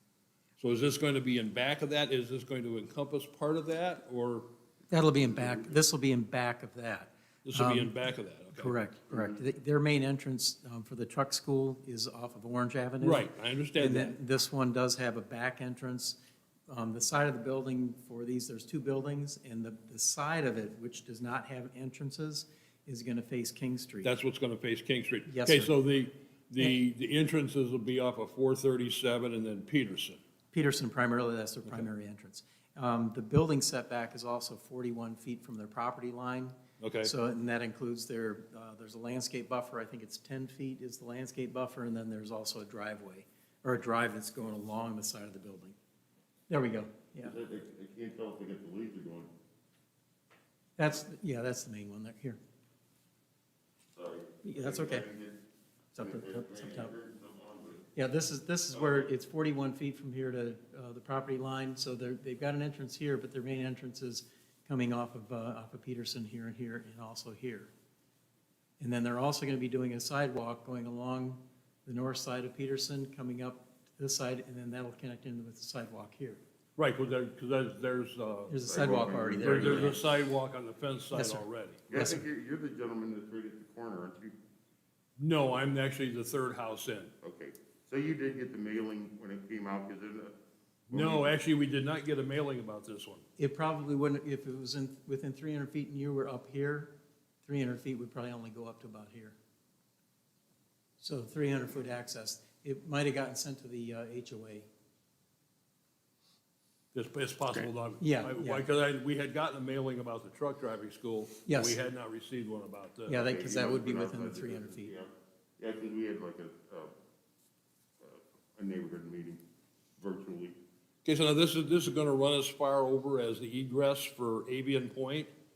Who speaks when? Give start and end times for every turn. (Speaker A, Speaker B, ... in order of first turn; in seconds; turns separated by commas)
Speaker A: 0.6-4.5, Speaker B: 4.9-8.0, Speaker A: 7.5-8.7, Speaker B: 8.5-24.1, Speaker A: 13.0-14.1, Speaker A: 24.0-30.2, Speaker B: 25.3-25.8, Speaker B: 30.5-45.8, Speaker A: 36.8-37.1, Speaker B: 46.5-47.3, Speaker C: 47.2-49.3, Speaker B: 50.8-52.4, Speaker C: 53.9-55.4, Speaker B: 54.4-55.1, Speaker B: 56.0-56.9, Speaker C: 56.0-57.9, Speaker B: 58.0-67.7, Speaker C: 58.7-59.1, Speaker B: 68.8-76.4, Speaker A: 76.8-78.6, Speaker B: 78.5-80.0, Speaker C: 78.7-80.1, Speaker A: 79.4-82.1, Speaker B: 81.1-82.2, Speaker C: 81.9-84.4, Speaker A: 85.2-87.1, Speaker C: 87.2-90.3, Speaker C: 90.9-91.3, Speaker A: 90.9-93.2, Speaker B: 93.4-96.9, Speaker B: 97.4-99.4, Speaker B: 101.0-104.7, Speaker A: 106.9-113.3, Speaker B: 108.0-108.7, Speaker B: 111.5-111.8, Speaker B: 113.1-114.9, Speaker C: 113.2-116.9, Speaker C: 118.0-119.4, Speaker C: 120.0-120.6, Speaker A: 121.0-125.3